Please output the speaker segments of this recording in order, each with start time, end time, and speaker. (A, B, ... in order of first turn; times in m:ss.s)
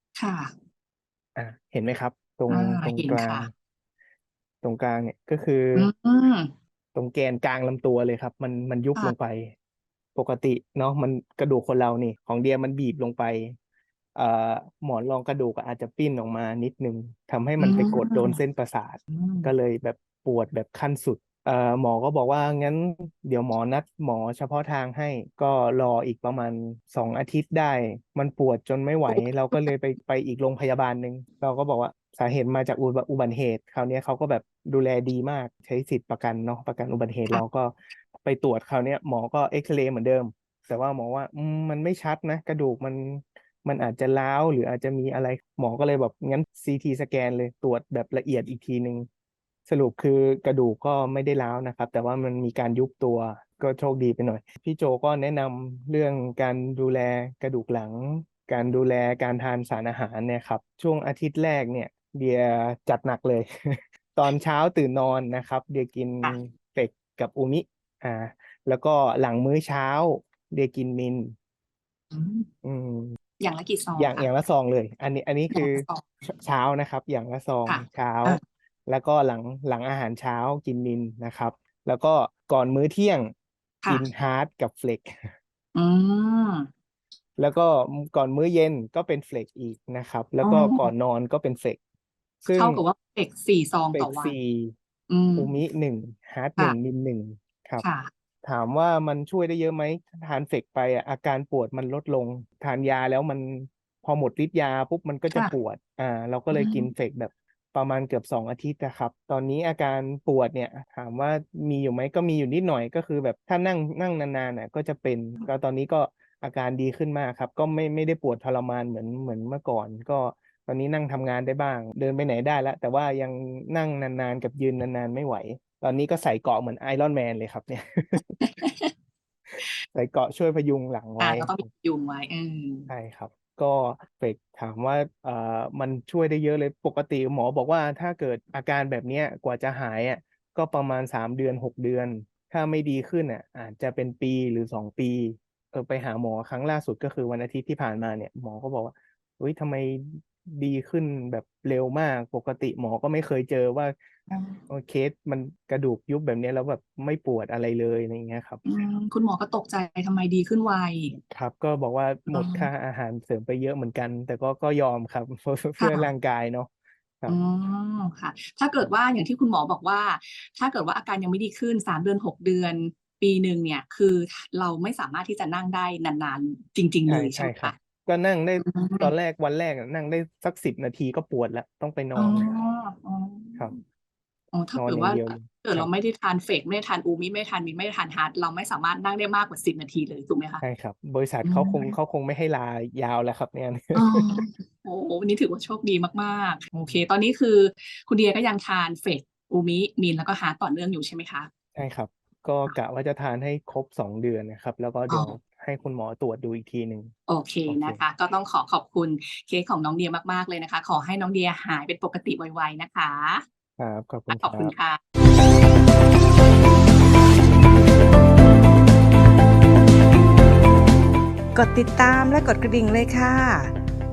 0:00.2-0:00.6 A
0:01.4-0:03.5 B
0:02.5-0:03.5 A
0:04.6-0:05.9 B
0:05.7-0:06.5 A
0:06.9-0:09.5 B
0:10.1-0:13.6 B
0:14.1-0:49.1 B
0:17.6-0:18.4 A
0:19.1-0:19.5 A
0:29.1-0:29.7 A
0:49.7-1:11.3 B
1:12.1-1:12.5 A
1:12.6-1:13.2 B
1:13.4-1:14.3 A
1:14.0-1:23.3 B
1:15.5-1:16.1 A
1:17.6-1:18.4 A
1:23.9-1:25.3 B
1:25.7-1:26.7 A
1:27.4-1:31.8 B
1:30.4-1:30.9 A
1:32.4-1:32.8 B
1:32.5-1:34.3 A
1:33.9-1:34.7 B
1:35.1-1:35.5 A
1:35.4-1:37.8 B
1:37.8-1:38.1 A
1:38.4-2:08.4 B
1:46.5-1:46.9 A
2:08.4-2:08.9 A
2:09.9-2:11.6 B
2:11.2-2:12.9 A
2:12.9-2:33.9 B
2:34.3-2:34.6 A
2:34.7-2:38.6 B
2:38.6-2:41.2 A
2:41.3-2:46.7 B
2:42.3-2:42.7 A
2:45.8-2:46.1 A
2:47.3-2:57.7 A
2:57.1-3:02.5 B
2:58.6-2:59.1 A
3:02.1-3:03.8 A
3:04.5-3:10.6 A
3:04.7-3:05.9 B
3:10.6-3:14.4 B
3:11.4-3:12.0 A
3:13.9-3:21.5 A
3:21.7-3:27.1 B
3:25.1-3:25.4 A
3:27.3-3:33.4 A
3:27.6-3:28.0 B
3:33.8-3:34.7 B
3:34.3-3:35.0 A
3:41.5-3:43.7 C